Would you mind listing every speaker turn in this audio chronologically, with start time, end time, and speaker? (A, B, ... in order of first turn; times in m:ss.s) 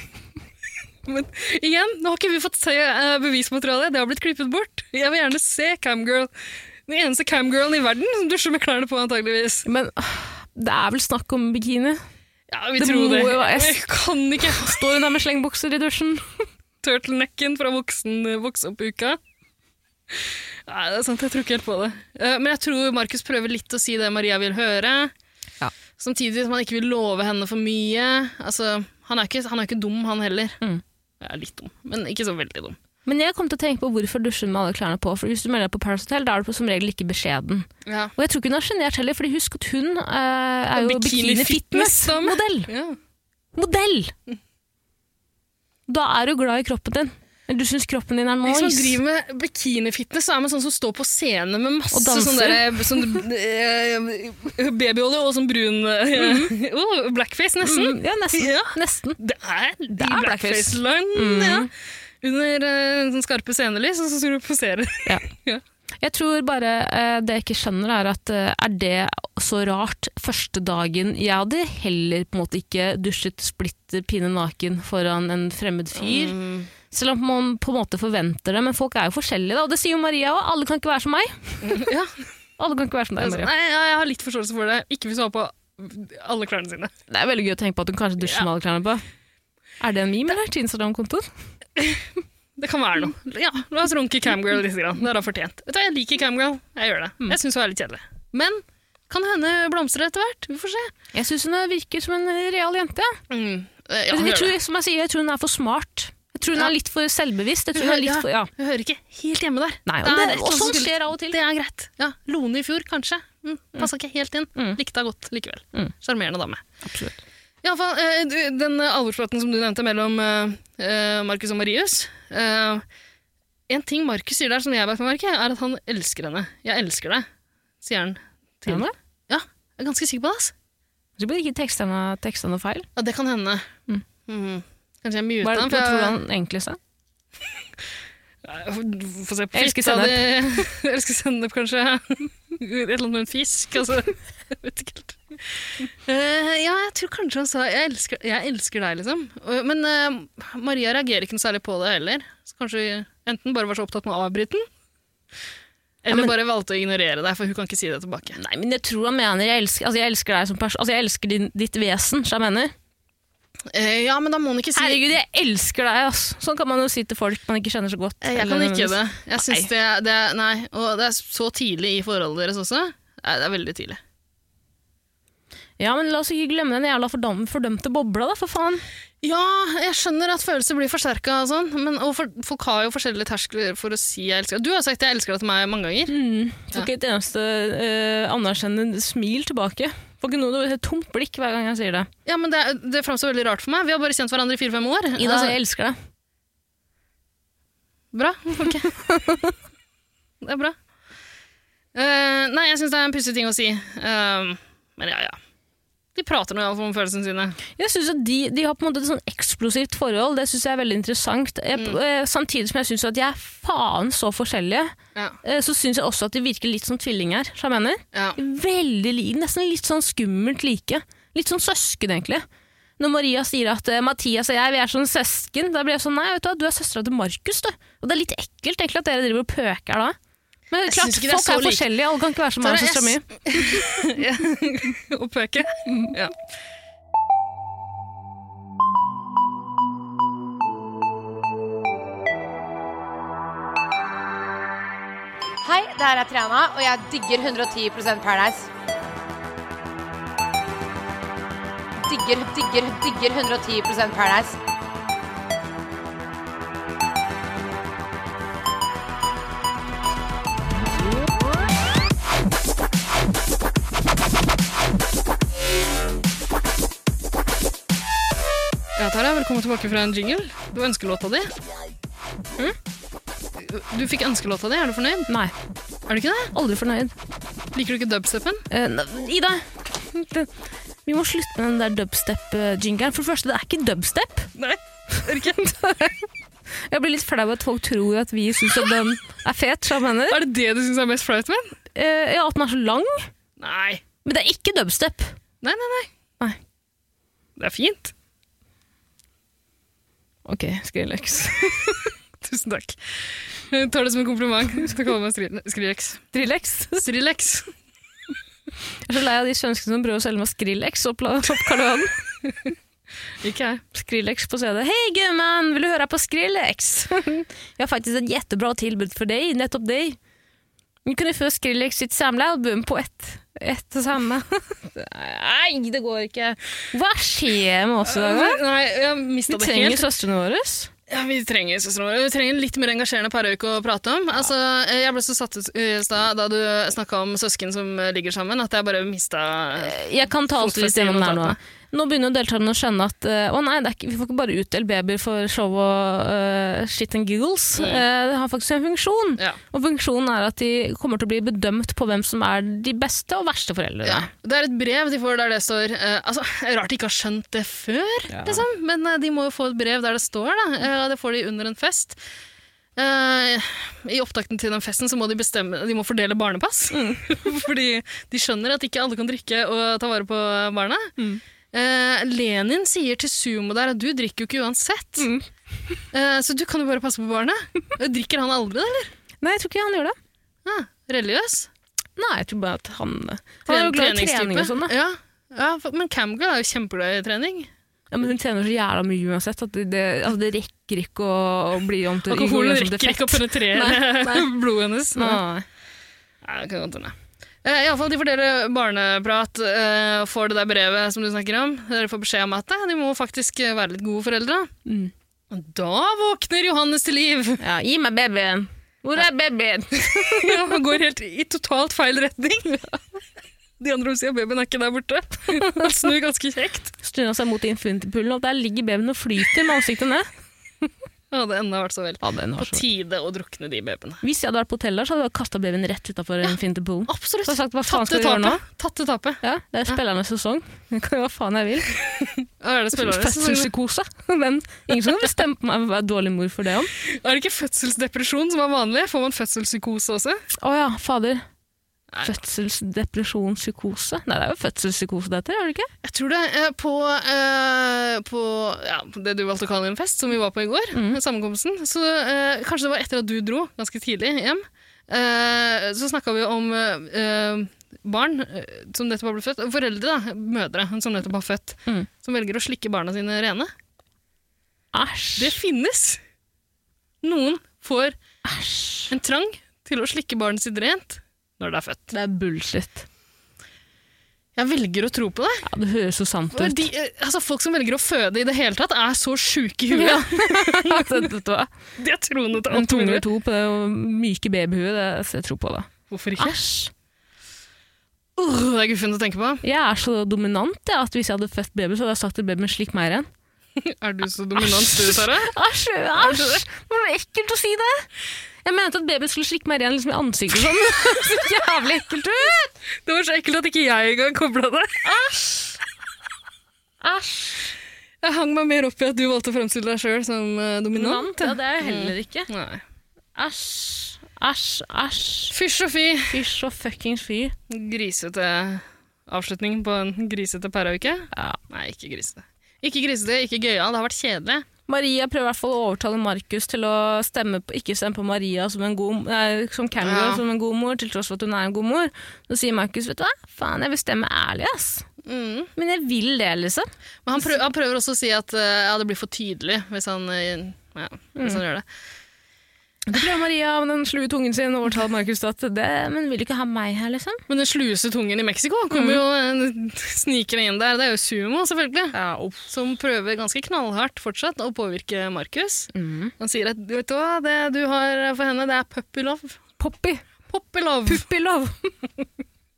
0:01.0-0:09.7 A
0:09.6-0:12.0 B
0:12.5-0:14.9 A
0:12.8-0:13.8 B
0:14.4-0:16.5 B
0:16.8-0:19.2 A
0:20.1-0:25.1 A
0:26.0-0:30.6 A
0:31.2-0:32.8 A
0:33.0-0:42.7 B
0:37.8-0:38.1 A
0:40.8-0:43.0 A
0:43.5-0:44.1 B
0:45.9-0:49.0 B
0:48.4-1:05.6 A
0:51.9-0:53.2 B
0:56.2-0:56.5 B
0:57.6-0:59.2 B
0:59.9-1:01.7 B
1:06.0-1:21.9 B
1:15.9-1:16.7 A
1:21.6-1:22.3 A
1:22.6-1:23.5 B
1:23.2-1:26.9 A
1:27.1-1:29.0 B
1:28.2-1:28.5 A
1:29.8-1:31.3 B
1:31.8-1:32.0 A
1:32.6-1:40.9 A
1:41.1-1:43.2 B
1:43.3-1:44.6 A
1:44.1-1:48.5 B
1:47.7-1:56.6 A
1:49.8-1:51.4 B
1:56.8-1:57.2 B
1:57.6-2:02.8 A
2:03.7-2:07.3 A
2:07.8-2:10.5 A
2:08.7-2:08.9 B
2:11.2-2:12.9 B
2:13.0-2:13.7 A
2:14.3-2:16.2 A
2:15.4-2:16.8 B
2:18.4-2:34.6 A
2:19.5-2:20.6 B
2:36.0-2:38.4 A
2:38.4-2:42.7 B
2:43.7-2:45.0 A
2:44.7-2:49.7 B
2:48.2-2:54.0 A
2:55.8-2:58.8 B
2:59.2-3:06.1 A
3:06.1-3:12.1 B
3:12.2-3:15.6 A
3:15.1-3:16.0 B
3:18.1-3:18.9 A
3:20.4-3:20.8 A
3:21.9-3:25.4 A
3:26.1-3:27.6 A
3:27.8-3:42.4 B
3:38.1-3:38.4 A
3:43.0-3:50.1 B
3:50.7-3:53.7 B
3:50.9-3:51.8 A
3:52.6-3:56.4 A
4:05.6-4:08.7 C
4:12.0-4:14.6 C
4:29.0-4:31.5 A
4:33.6-4:35.3 A
4:35.3-4:35.5 B
4:36.1-4:36.5 A
4:36.5-4:37.1 B
4:37.7-4:38.6 A
4:38.7-4:40.5 B
4:41.0-4:44.5 B
4:44.6-4:45.7 A
4:45.2-4:46.3 B
4:46.9-4:50.4 B
4:50.3-4:51.8 A
4:51.9-4:53.3 B
4:53.6-4:54.0 A
4:54.2-4:55.4 B
4:55.6-4:56.1 A
4:57.6-4:58.1 A
5:00.4-5:02.1 B
5:02.4-5:06.2 A
5:06.3-5:07.0 B
5:06.9-5:07.7 A
5:09.0-5:12.2 B
5:13.4-5:13.8 A
5:13.9-5:20.2 B
5:21.0-5:28.6 B
5:28.0-5:30.0 A
5:29.5-5:30.9 B
5:31.1-5:41.6 A
5:39.8-5:54.3 B
5:47.8-5:48.0 A
5:54.0-6:02.2 A
5:58.3-5:58.6 B
6:03.0-6:11.1 A
6:06.9-6:07.5 B
6:11.7-6:15.3 A
6:15.2-6:15.4 B
6:16.1-6:19.1 A
6:19.4-6:20.2 B
6:20.6-6:21.7 A
6:22.2-6:24.9 B
6:23.7-6:27.7 A
6:28.1-6:34.5 B
6:32.2-6:35.4 A
6:35.2-6:35.6 B
6:36.4-6:44.7 A
6:44.8-6:45.1 B
6:45.5-6:47.6 A
6:47.6-6:50.6 B
6:50.1-6:52.9 A
6:53.8-6:56.9 A
6:57.0-7:00.3 B
7:01.3-7:04.2 A
7:02.2-7:02.8 B
7:04.2-7:08.6 B
7:06.4-7:10.0 A
7:09.4-7:12.0 B
7:12.1-7:13.7 A
7:12.9-7:16.9 B
7:17.0-7:20.4 A
7:20.6-7:21.4 B
7:22.1-7:22.4 A
7:22.2-7:25.9 B
7:26.0-7:43.7 A
7:30.9-7:31.2 B
7:44.9-7:45.5 B
7:45.4-7:46.2 A
7:47.2-7:48.1 A
7:48.4-7:49.1 B
7:49.1-7:52.1 A
7:52.1-7:53.0 B
7:54.6-7:55.6 A
7:55.6-7:56.9 B
7:56.5-8:01.3 A
7:59.9-8:01.7 B
8:02.0-8:03.2 A
8:02.7-8:06.9 B
8:06.1-8:06.6 A
8:08.4-8:09.6 A
8:09.6-8:13.3 B
8:13.8-8:15.5 A
8:14.6-8:18.1 B
8:16.1-8:16.6 A
8:18.6-8:22.7 B
8:20.9-8:21.4 A
8:23.0-8:25.1 A
8:25.0-8:25.7 B
8:27.0-8:27.7 B
8:28.2-8:32.8 A
8:30.9-8:32.5 B
8:33.4-8:35.5 B
8:35.5-8:36.4 A
8:36.3-8:37.5 B
8:37.7-8:44.6 A
8:41.3-8:41.6 B
8:44.9-8:55.1 B
8:50.0-8:50.4 A
8:55.2-8:55.7 A
8:55.8-8:57.5 B
8:57.2-9:01.8 A
9:01.4-9:01.6 B
9:03.1-9:07.4 B
9:07.5-9:12.1 A
9:08.9-9:09.2 B
9:12.1-9:12.7 B
9:12.7-9:19.6 A
9:15.9-9:16.3 B
9:19.8-9:20.2 B
9:20.5-9:21.3 A
9:21.1-9:21.9 B